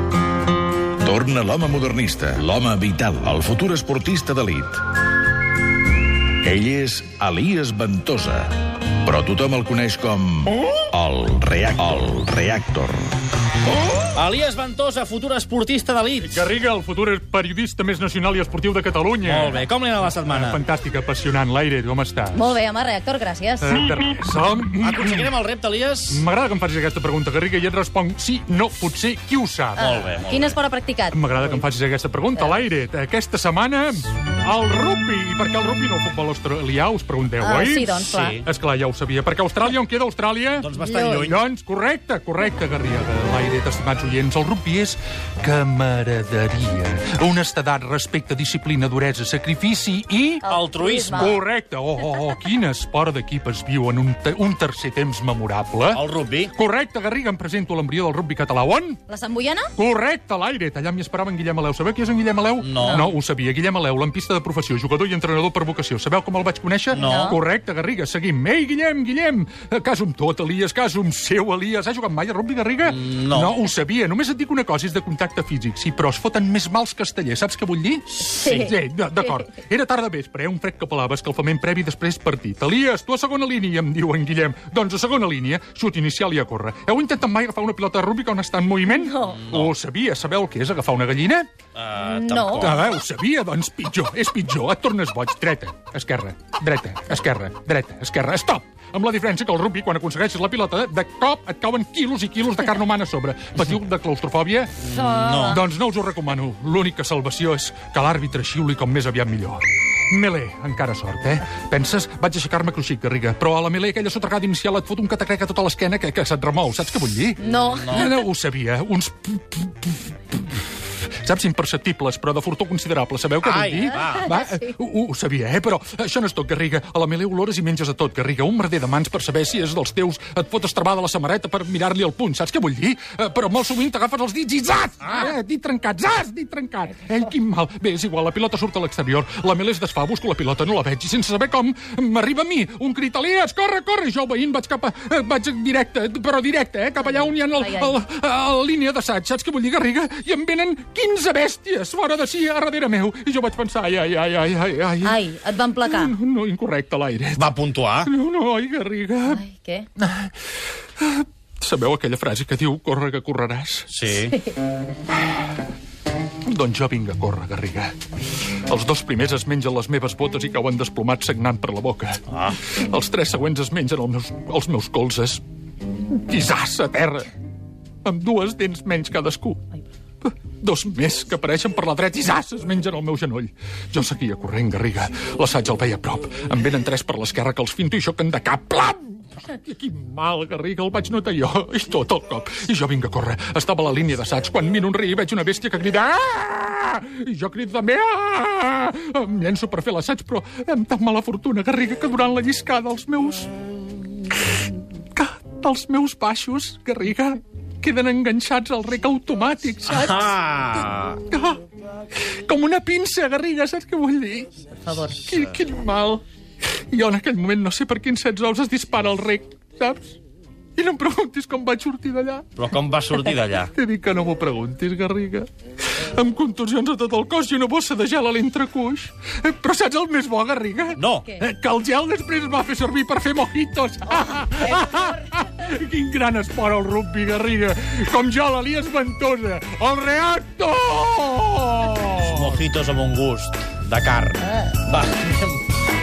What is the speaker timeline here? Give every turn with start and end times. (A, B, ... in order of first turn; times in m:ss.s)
0:01.0-0:04.9 A
0:06.4-0:13.1 A
0:14.1-0:16.4 B
0:16.2-0:19.7 C
0:19.2-0:20.6 B
0:20.3-0:22.5 C
0:22.3-0:23.9 D
0:23.6-0:25.3 C
0:24.8-0:26.2 B
0:26.1-0:29.9 C
0:29.8-0:30.6 B
0:29.8-0:31.2 D
0:31.1-0:50.5 C
0:37.4-0:38.4 D
0:38.0-0:38.4 B
0:40.6-0:41.4 B
0:40.8-0:41.3 D
0:50.4-0:51.4 D
0:50.4-0:51.4 B
0:51.1-0:59.0 C
0:55.9-0:56.5 B
0:59.1-0:59.7 D
0:59.7-1:31.5 C
1:02.6-1:03.1 B
1:02.8-1:03.1 D
1:06.9-1:07.4 B
1:07.0-1:07.4 D
1:12.8-1:13.6 B
1:18.3-1:18.8 D
1:28.9-1:29.5 D
1:29.3-1:29.7 B
1:31.7-1:32.9 B
1:32.0-1:32.8 D
1:32.6-1:44.8 C
1:44.8-1:45.6 B
1:44.9-1:45.6 D
1:45.4-2:37.5 C
1:57.4-1:58.2 D
1:57.6-1:58.2 B
2:03.4-2:04.3 B
2:04.3-2:04.7 D
2:15.0-2:15.3 B
2:27.3-2:28.0 D
2:35.0-2:36.1 D
2:37.3-2:38.1 B
2:38.0-2:39.4 C
2:39.2-2:39.9 D
2:41.0-2:43.9 C
2:43.9-2:44.4 B
2:46.4-2:48.0 C
2:48.6-2:55.4 C
2:52.3-2:52.6 B
2:56.1-2:57.3 C
2:58.0-2:59.7 C
3:00.2-3:23.5 C
3:25.1-3:30.3 C
3:29.9-3:31.2 B
3:31.3-3:31.6 C
3:32.2-3:34.6 C
3:34.8-3:35.4 D
3:35.2-3:36.2 C
3:36.9-3:40.2 C
3:40.8-3:42.5 C
3:42.5-3:43.7 B
3:43.7-4:02.6 C
3:51.0-3:51.4 B
4:02.2-4:05.6 B